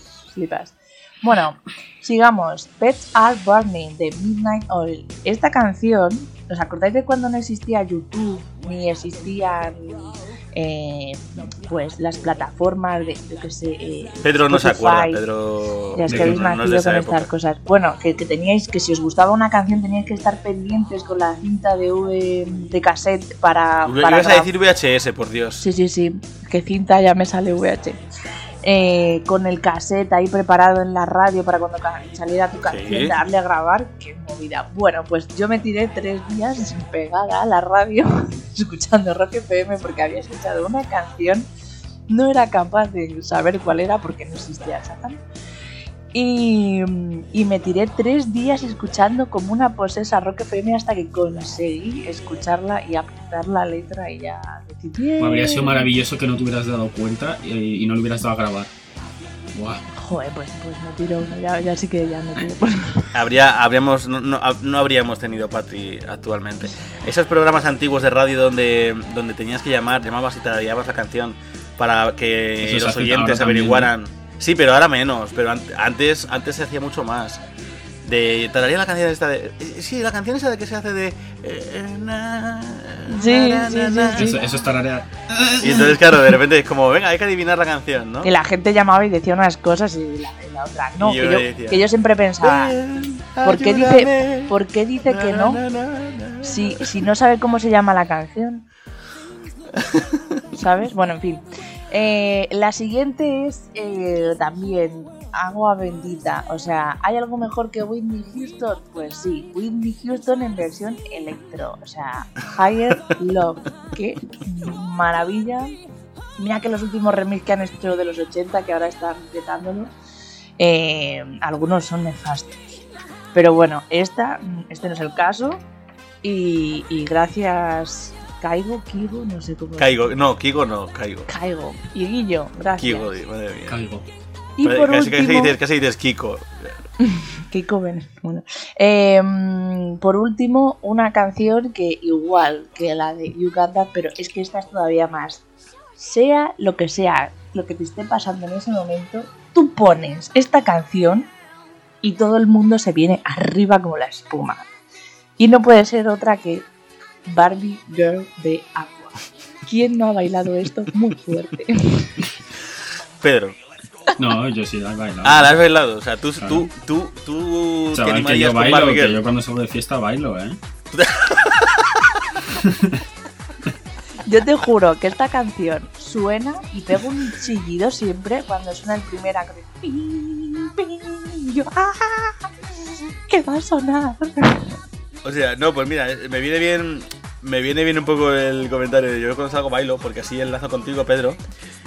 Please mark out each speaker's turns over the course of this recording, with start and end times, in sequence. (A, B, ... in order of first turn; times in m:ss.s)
0:00.3-0:15.2 A
0:14.2-0:17.3 B
0:16.0-0:24.5 A
0:16.1-0:16.4 C
0:23.8-0:25.7 B
0:25.6-0:28.0 A
0:28.6-0:41.5 A
0:32.7-0:33.2 B
0:42.1-0:45.2 A
0:46.1-0:55.9 A
0:55.2-0:58.7 C
0:59.5-0:59.8 C
1:00.0-1:03.1 A
1:03.1-1:17.4 B
1:12.6-1:13.9 C
1:18.0-1:24.4 B
1:23.1-1:24.3 A
1:24.1-1:26.4 C
1:25.6-1:28.3 B
1:28.2-1:32.8 A
1:31.0-1:31.8 B
1:32.4-1:34.6 B
1:33.4-1:35.6 A
1:35.1-1:36.9 B
1:36.4-1:38.7 A
1:39.7-1:40.4 B
1:40.6-1:55.7 A
1:56.4-1:59.9 A
2:00.6-2:02.6 A
2:03.3-2:05.6 A
2:06.2-2:10.2 A
2:09.8-2:11.3 B
2:11.3-2:13.2 A
2:12.8-2:13.8 B
2:13.7-2:14.1 C
2:14.6-2:15.6 A
2:14.6-2:16.7 B
2:17.2-2:25.4 A
2:26.0-2:31.3 A
2:32.0-2:34.7 A
2:35.4-2:36.7 A
2:37.3-2:42.2 A
2:43.2-2:43.6 B
2:44.2-2:45.6 C
2:45.2-2:49.2 B
2:46.4-2:46.7 C
2:47.9-2:50.6 C
2:50.9-2:52.3 B
2:52.6-2:53.0 C
2:54.2-3:02.4 A
3:03.3-3:04.7 A
3:05.2-3:11.4 B